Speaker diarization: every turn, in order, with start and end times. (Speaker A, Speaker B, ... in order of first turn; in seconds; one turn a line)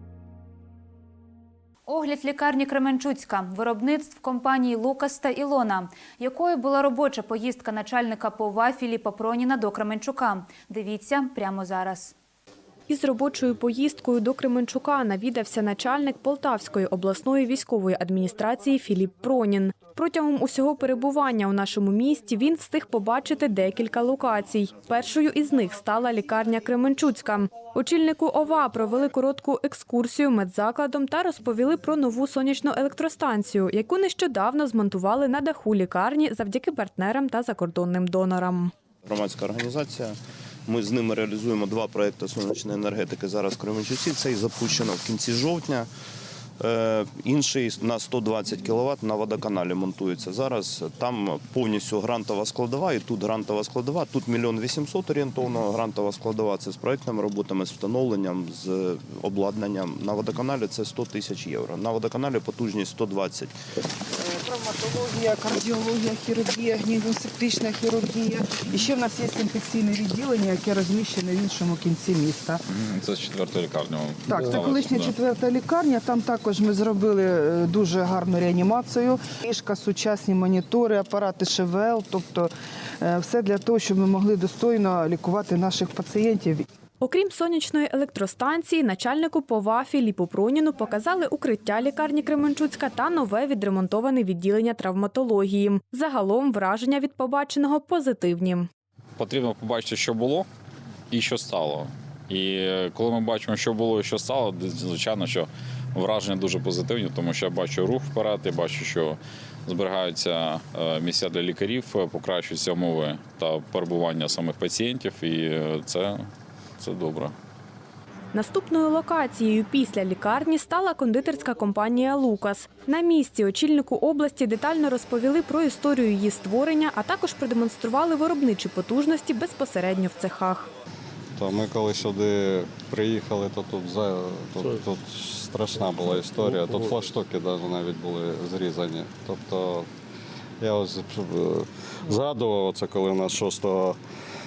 Speaker A: 1.9-12.1
Speaker B: 12.9-38.7
Speaker C: 39.0-45.9
Speaker C: 46.6-63.5
Speaker D: 64.2-72.6
Speaker E: 72.7-75.1
Speaker D: 74.3-82.5
Speaker D: 83.0-86.7
Speaker B: 87.0-98.7
Speaker E: 99.2-100.5
Speaker E: 101.1-116.3
Speaker E: 116.8-117.3
Speaker B: 118.3-130.7
Speaker F: 131.3-139.9
Speaker F: 140.6-144.0